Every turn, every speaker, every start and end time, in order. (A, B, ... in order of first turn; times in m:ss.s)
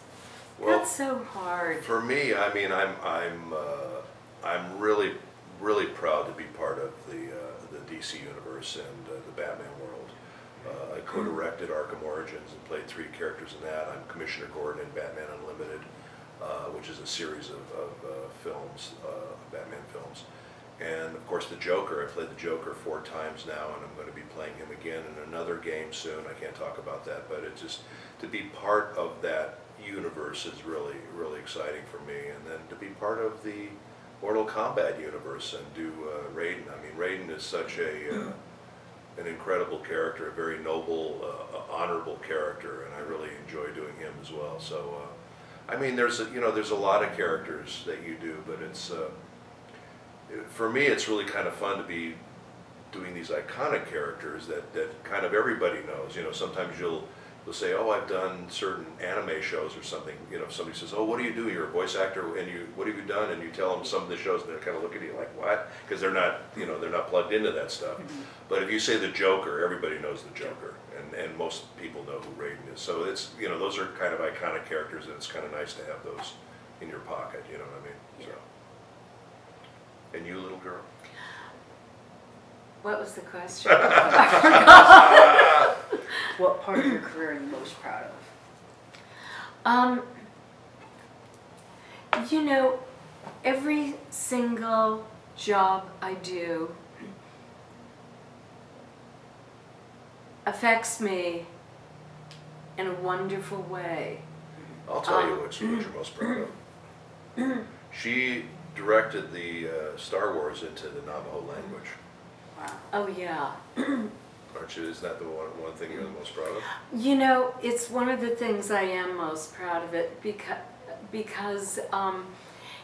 0:00.6-0:00.9 A
0:00.6-0:01.9 B
0:01.8-0:15.9 A
0:16.4-0:20.2 A
0:20.8-0:38.4 A
0:39.2-0:45.1 A
0:45.7-0:49.1 A
0:50.3-0:52.2 A
0:52.9-1:18.4 A
1:20.1-1:20.8 A
1:22.8-1:25.7 B
1:24.0-1:25.3 C
1:26.2-1:28.3 C
1:29.6-1:30.1 B
1:32.1-1:32.8 B
1:33.4-1:36.8 B
1:40.4-1:41.5 B
1:42.8-1:44.2 B
1:44.8-1:46.6 A
1:45.0-1:45.9 B
1:47.9-1:52.0 A
1:52.5-1:52.9 C
1:52.9-1:54.1 B
1:54.5-1:56.7 A
1:56.8-2:02.3 B